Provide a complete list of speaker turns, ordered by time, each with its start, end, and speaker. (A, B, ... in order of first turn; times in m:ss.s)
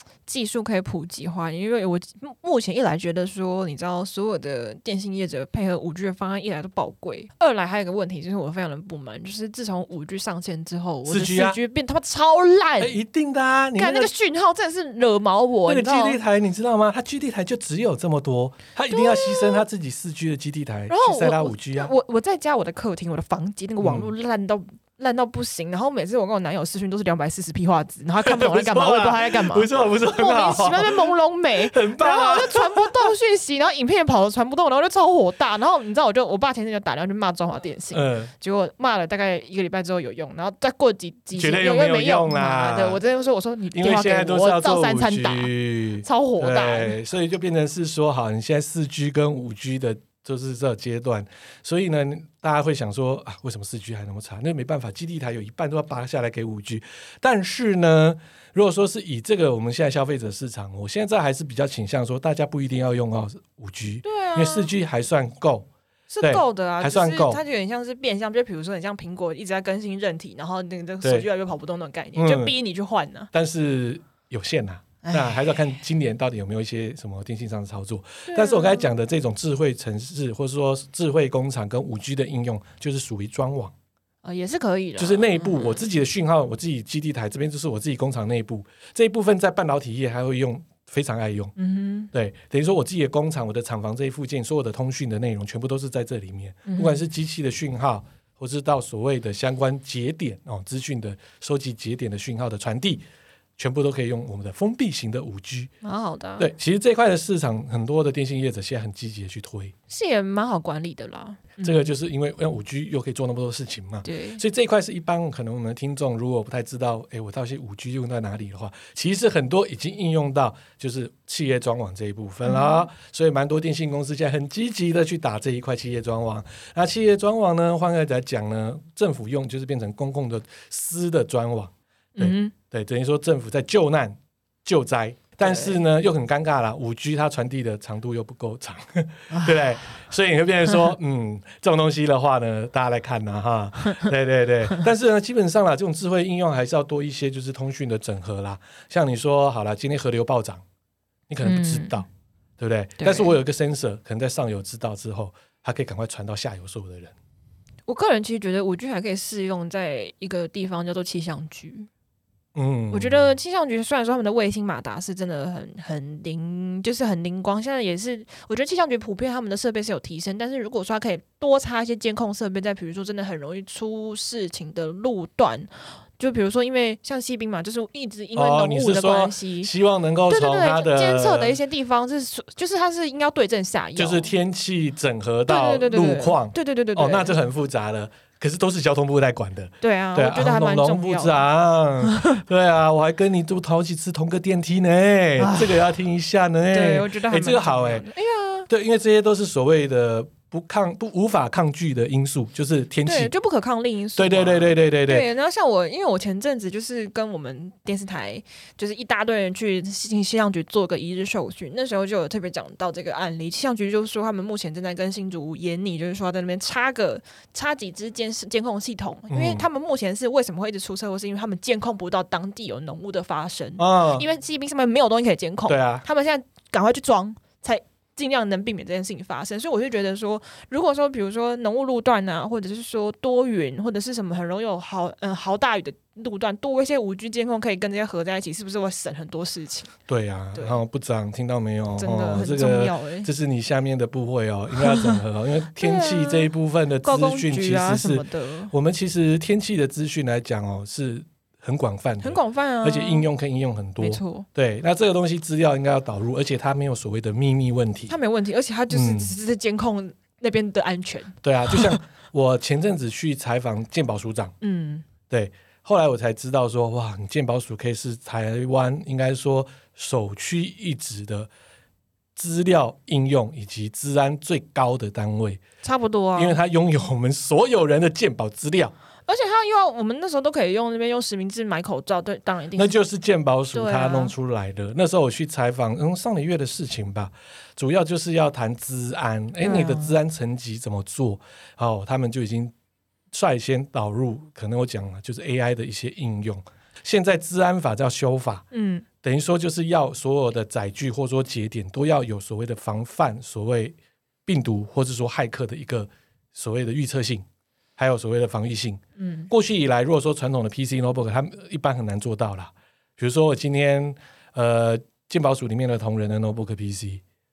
0:00.3-0:12.9 A
0:11.0-0:11.6 B
0:12.8-0:14.1 B
0:13.8-0:16.2 A
0:15.6-0:21.9 B
0:18.9-0:19.6 A
0:20.9-0:47.0 A
0:23.8-0:24.1 B
0:28.2-0:31.1 B
0:31.7-0:33.1 B
0:37.9-0:38.3 B
0:41.4-0:43.0 B
0:43.7-1:05.7 B
1:04.0-1:04.7 A
1:06.1-1:13.3 A
1:06.2-1:07.4 B
1:11.0-1:11.3 B
1:12.2-1:12.5 B
1:13.3-1:23.7 B
1:15.0-1:15.4 A
1:18.2-1:18.9 A
1:24.2-1:25.8 A
1:25.0-1:31.5 B
1:31.6-1:32.1 A
1:32.1-1:43.0 B
1:36.6-1:37.0 A
1:43.6-1:45.7 B
1:45.8-1:46.5 A
1:46.4-1:49.7 B
1:49.9-1:51.9 A
1:51.6-2:30.6 B
1:54.0-1:54.4 A
2:02.4-2:02.9 A
2:12.2-2:12.5 A
2:15.4-2:15.8 A
2:31.3-2:32.0 B
2:31.4-2:32.0 A
2:32.6-2:37.1 B
2:33.0-2:33.3 A
2:37.9-2:41.9 A
2:42.5-2:43.3 B
2:42.9-2:59.7 A
2:58.3-3:01.6 B
3:00.3-3:04.3 A
3:04.0-3:18.0 B
3:05.5-3:07.3 A
3:09.8-3:11.5 A
3:12.1-3:12.4 A
3:15.4-3:15.9 A
3:16.7-3:18.7 A
3:18.7-3:23.3 B
3:23.0-3:59.9 A
3:24.2-3:25.3 B
3:39.3-3:39.6 B
3:43.8-3:44.2 B
3:45.7-3:46.0 B
4:00.1-4:18.2 B
4:02.0-4:03.3 A
4:04.8-4:05.2 A
4:05.8-4:06.5 A
4:07.0-4:08.7 A
4:12.2-4:13.3 A
4:14.0-4:14.4 A
4:18.1-4:22.0 A
4:18.9-4:19.3 B
4:21.4-4:24.5 B
4:24.6-4:25.0 A
4:25.3-4:31.5 B
4:32.4-4:35.6 B
4:35.8-4:36.6 A
4:36.3-4:38.9 B
4:39.3-4:42.9 A
4:42.7-4:52.7 B
4:43.7-4:44.3 A
4:49.6-4:50.2 A
4:53.3-4:58.6 B
4:58.7-4:59.0 A
4:59.2-5:07.4 B
5:08.0-5:17.2 B
5:09.2-5:09.5 A